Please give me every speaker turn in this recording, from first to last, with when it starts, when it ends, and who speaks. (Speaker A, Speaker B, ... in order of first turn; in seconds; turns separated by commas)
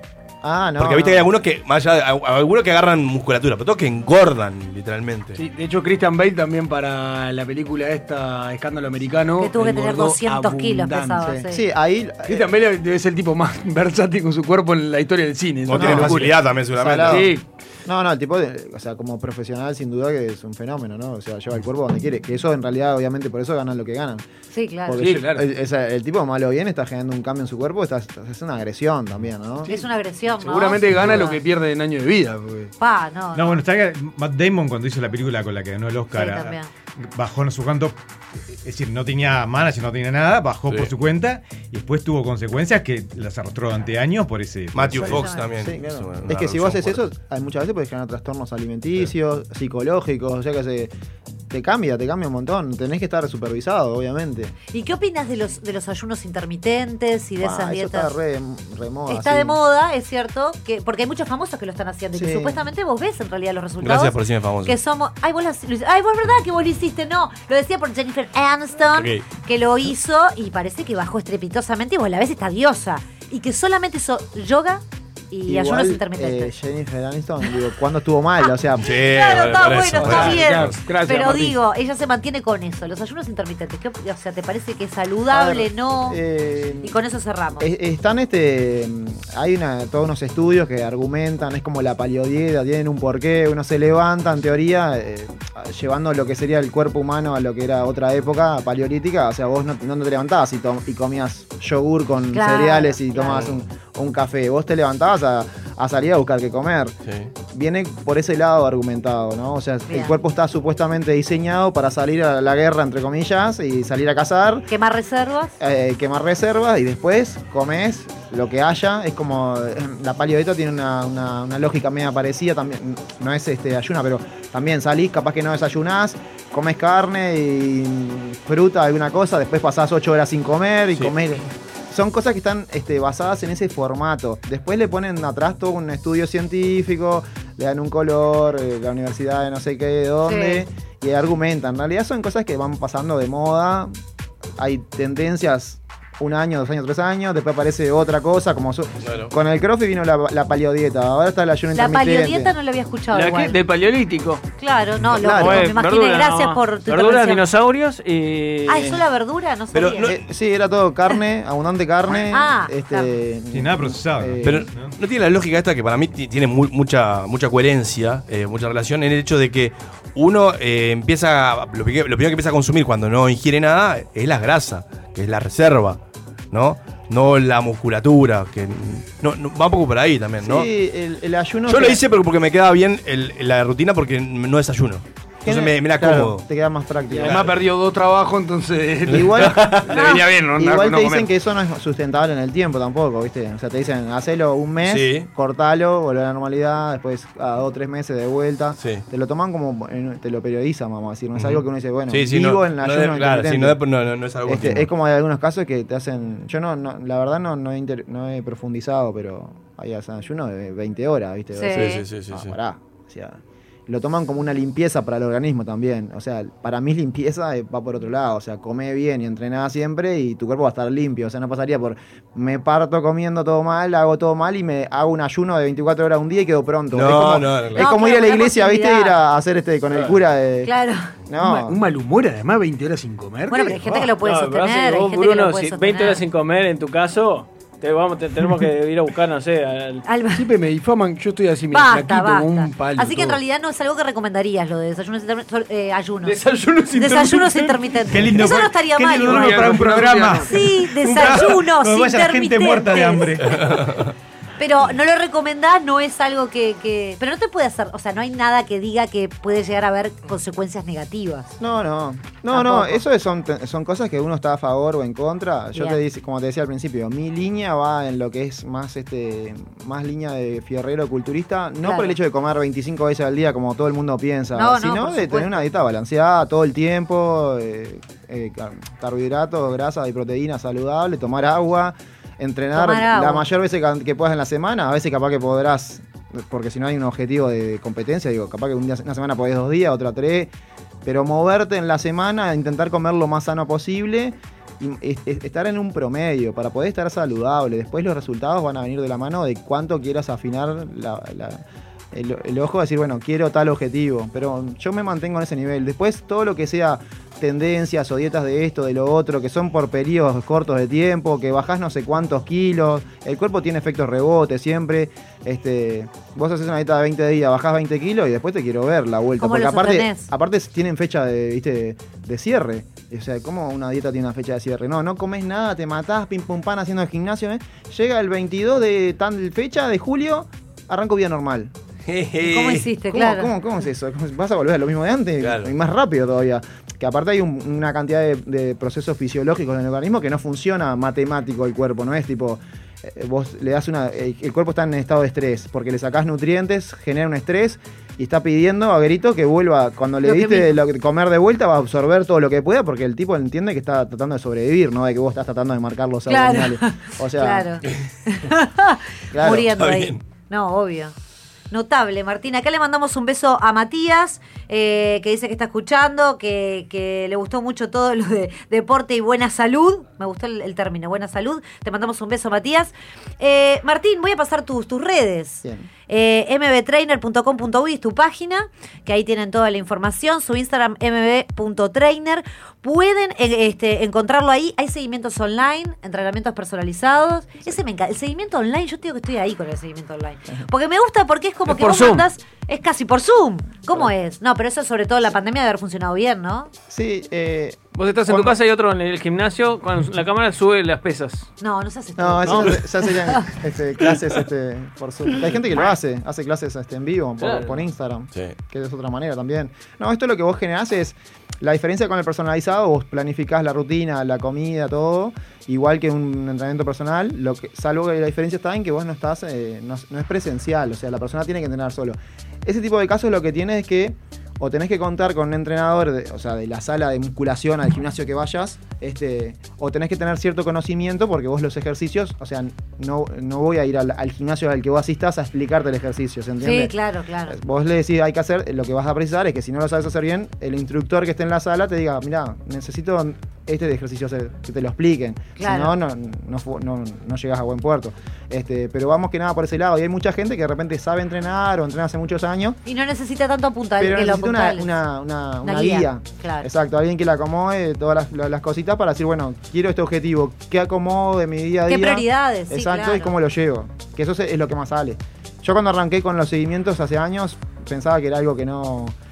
Speaker A: 0.4-1.3, Speaker B: 0.8-5.4, Speaker C: 5.3-11.3, Speaker D: 9.4-11.6, Speaker A: 11.3-12.4, Speaker C: 12.2-16.4, Speaker B: 15.7-17.3, Speaker A: 15.8-16.1, Speaker A: 16.8-17.3, Speaker C: 17.1-17.4, Speaker A: 17.9-24.2, Speaker D: 24.5-25.0, Speaker A: 24.9-29.7, Speaker C: 25.0-25.4, Speaker D: 29.7-31.4, Speaker C: 30.4-32.7, Speaker D: 32.8-33.6, Speaker E: 33.3-38.0, Speaker D: 36.1-36.7, Speaker E: 38.5-45.2, Speaker B: 44.7-47.0, Speaker D: 45.0-45.5, Speaker A: 45.5-50.9, Speaker A: 51.5-54.5, Speaker D: 54.7-58.1, Speaker A: 57.4-59.6, Speaker D: 59.1-64.1, Speaker A: 62.1-62.5, Speaker B: 63.8-64.8, Speaker D: 64.7-76.5, Speaker B: 68.9-69.2, Speaker A: 75.5-78.9, Speaker B: 78.8-80.8, Speaker D: 79.0-86.2, Speaker C: 80.0-81.6, Speaker A: 85.3-86.9, Speaker D: 86.8-87.7, Speaker A: 87.6-106.9, Speaker D: 102.3-103.4, Speaker B: 103.3-103.6, Speaker A: 107.5-114.7, Speaker D: 109.9-110.2, Speaker D: 114.7-115.5, Speaker A: 115.6-143.9, Speaker D: 140.2-140.6, Speaker A: 144.6-152.5, Speaker B: 149.0-149.3, Speaker D: 151.7-153.6, Speaker F: 153.1-154.4, Speaker D: 154.6-157.4, Speaker A: 155.2-155.7, Speaker F: 155.2-159.0, Speaker D: 158.7-160.2, Speaker B: 159.7-160.2, Speaker A: 160.0-164.7, Speaker D: 162.1-163.1, Speaker E: 163.5-164.9, Speaker B: 164.4-176.0, Speaker B: 176.5-180.7, Speaker A: 180.4-182.0, Speaker B: 181.7-186.4, Speaker A: 185.4-187.3, Speaker C: 187.1-191.3, Speaker B: 187.2-187.5, Speaker B: 189.1-189.9, Speaker A: 189.1-190.0, Speaker A: 190.6-203.8, Speaker B: 194.8-195.3, Speaker B: 198.8-199.0, Speaker B: 201.3-204.9, Speaker A: 204.5-230.7, Speaker D: 211.5-212.0, Speaker B: 211.7-212.5, Speaker B: 226.9-227.8, Speaker D: 227.8-229.2, Speaker D: 230.7-231.1, Speaker A: 231.3-231.8, Speaker C: 231.4-234.1, Speaker D: 233.5-236.2, Speaker F: 234.2-240.0, Speaker D: 240.1-240.5, Speaker C: 240.3-243.4, Speaker D: 241.7-246.4, Speaker C: 246.2-248.0, Speaker D: 246.9-249.9, Speaker E: 248.1-253.6, Speaker C: 249.1-250.6, Speaker D: 250.4-253.8, Speaker B: 253.4-254.1, Speaker D: 254.6-261.6, Speaker A: 261.6-290.5, Speaker D: 262.5-263.0, Speaker D: 271.8-272.1, Speaker D: 274.6-275.7, Speaker D: 282.7-283.4, Speaker A: 291.0-331.7, Speaker D: 319.4-320.3, Speaker B: 332.1-332.9, Speaker D: 332.4-333.5, Speaker A: 333.1-357.7, Speaker B: 335.4-335.7, Speaker D: 350.2-350.7, Speaker D: 356.3-361.1, Speaker A: 359.3-359.7, Speaker B: 359.7-360.2, Speaker D: 361.7-396.7, Speaker F: 391.7-392.2, Speaker A: 396.9-398.6, Speaker F: 397.9-401.5, Speaker D: 401.6-403.4, Speaker A: 402.2-436.9, Speaker F: 407.4-407.7, Speaker D: 436.6-437.6, Speaker A: 437.5-452.8, Speaker D: 445.6-445.9, Speaker D: 452.9-454.9, Speaker A: 454.0-469.1, Speaker D: 455.6-456.7, Speaker D: 461.9-463.3